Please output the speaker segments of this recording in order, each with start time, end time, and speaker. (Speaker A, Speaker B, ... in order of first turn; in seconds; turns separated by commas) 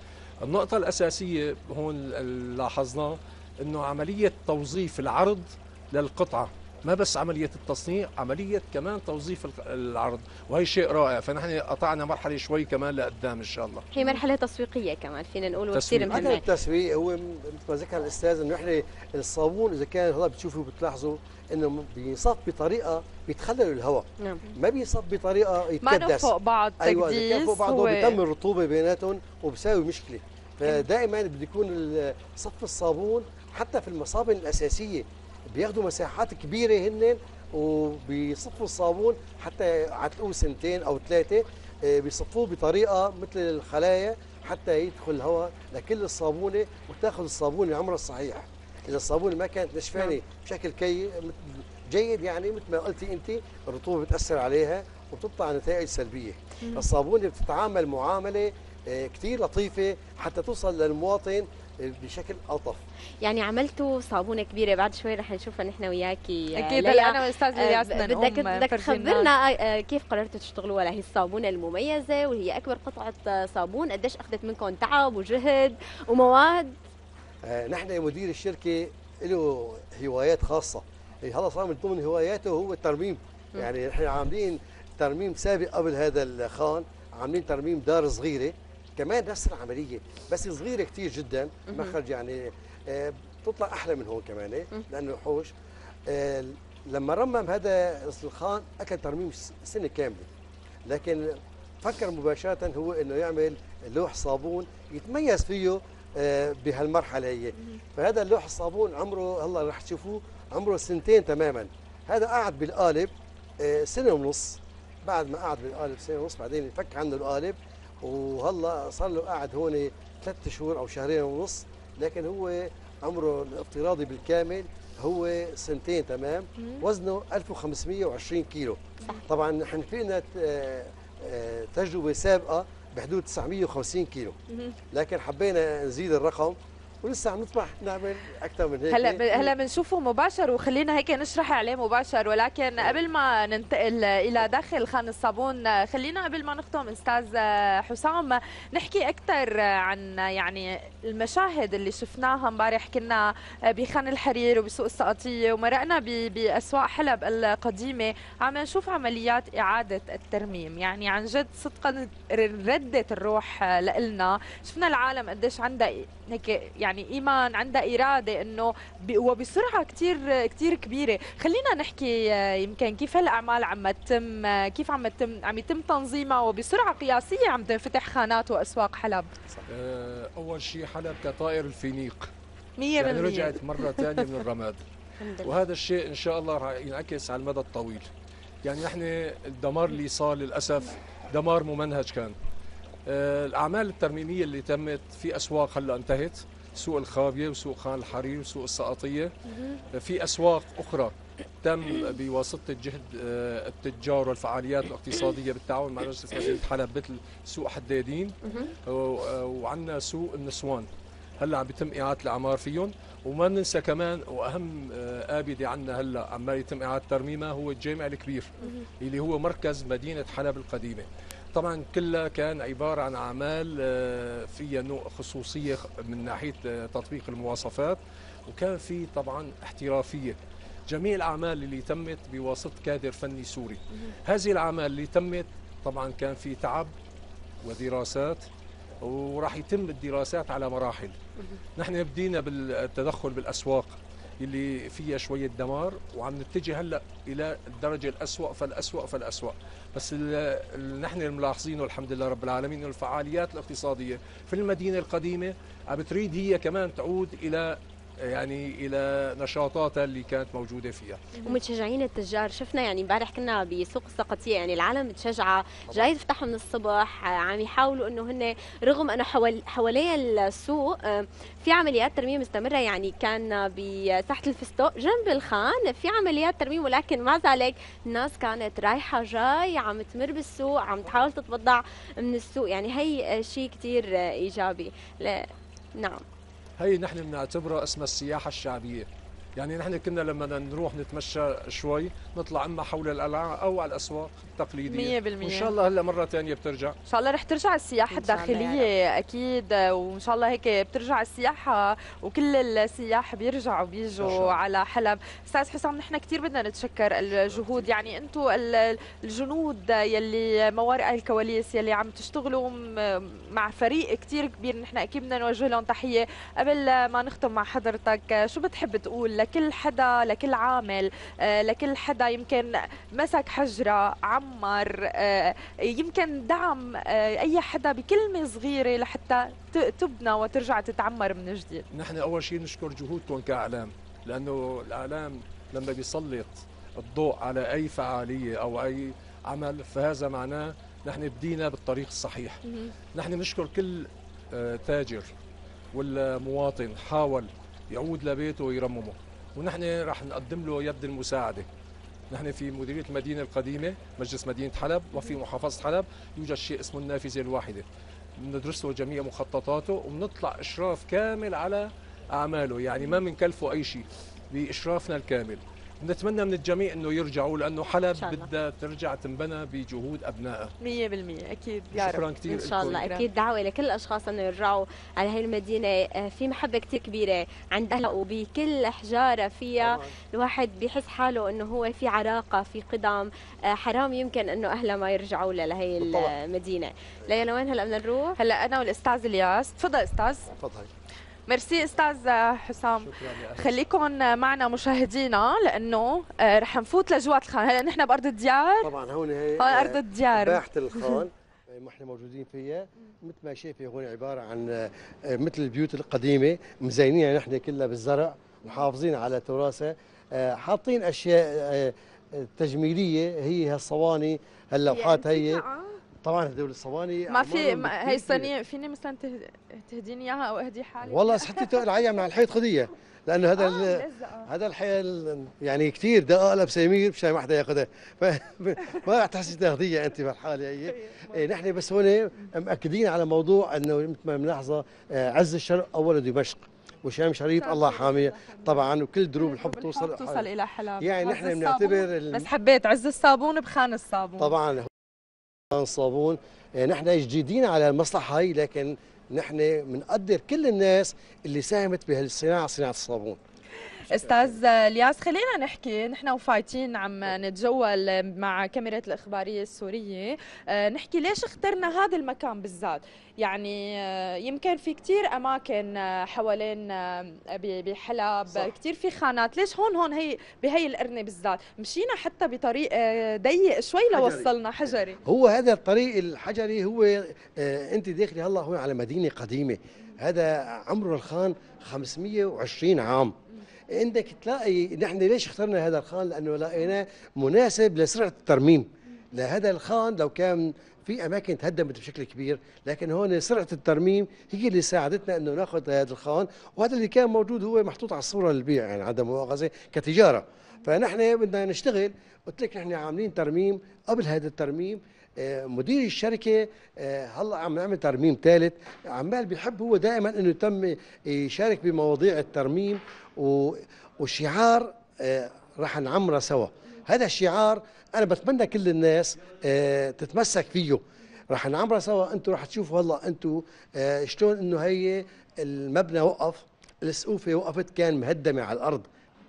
Speaker A: 0.4-13.9, Speaker B: 13.9-16.4, Speaker A: 15.7-16.4, Speaker C: 16.1-62.9, Speaker D: 25.8-28.2, Speaker B: 63.2-76.8, Speaker D: 66.5-69.3, Speaker C: 77.4-95.5, Speaker B: 91.7-92.0, Speaker C: 96.1-100.3, Speaker C: 100.9-134.4, Speaker D: 126.6-126.8, Speaker D: 134.5-134.8, Speaker C: 134.9-139.5, Speaker D: 138.9-179.3, Speaker A: 179.7-182.3, Speaker D: 182.8-184.1, Speaker A: 183.0-184.8, Speaker B: 185.2-185.5, Speaker A: 185.4-188.1, Speaker A: 188.6-192.4, Speaker A: 193.1-199.3, Speaker A: 199.9-210.9, Speaker B: 208.4-208.7, Speaker A: 211.4-236.9, Speaker A: 237.6-238.4, Speaker A: 239.0-241.1, Speaker A: 241.8-261.3, Speaker B: 261.4-286.2, Speaker A: 286.8-296.9, Speaker D: 294.9-295.7, Speaker D: 297.1-331.9, Speaker B: 298.1-298.9, Speaker C: 304.2-304.6, Speaker C: 307.5-308.1, Speaker A: 331.9-342.6, Speaker D: 342.7-342.9, Speaker A: 343.1-345.3, Speaker A: 345.9-351.7, Speaker A: 352.3-357.9, Speaker A: 358.4-370.7, Speaker B: 368.1-368.5, Speaker D: 370.8-372.3, Speaker A: 371.9-373.1, Speaker B: 372.5-388.4, Speaker D: 372.9-373.3, Speaker C: 379.8-380.1, Speaker C: 386.0-386.3, Speaker D: 388.4-390.5, Speaker C: 390.6-390.9, Speaker D: 391.5-398.9, Speaker C: 393.1-393.6, Speaker C: 398.8-415.6, Speaker D: 399.6-401.2, Speaker D: 414.9-416.0, Speaker C: 416.2-418.5, Speaker D: 417.3-421.9, Speaker C: 421.0-440.5, Speaker D: 423.6-424.5, Speaker D: 430.9-431.4, Speaker D: 437.6-438.8, Speaker D: 439.4-444.6, Speaker C: 441.0-442.5, Speaker C: 444.4-444.9, Speaker C: 445.7-453.4, Speaker D: 454.0-475.2, Speaker C: 454.1-454.6, Speaker C: 474.1-483.4, Speaker C: 483.9-529.1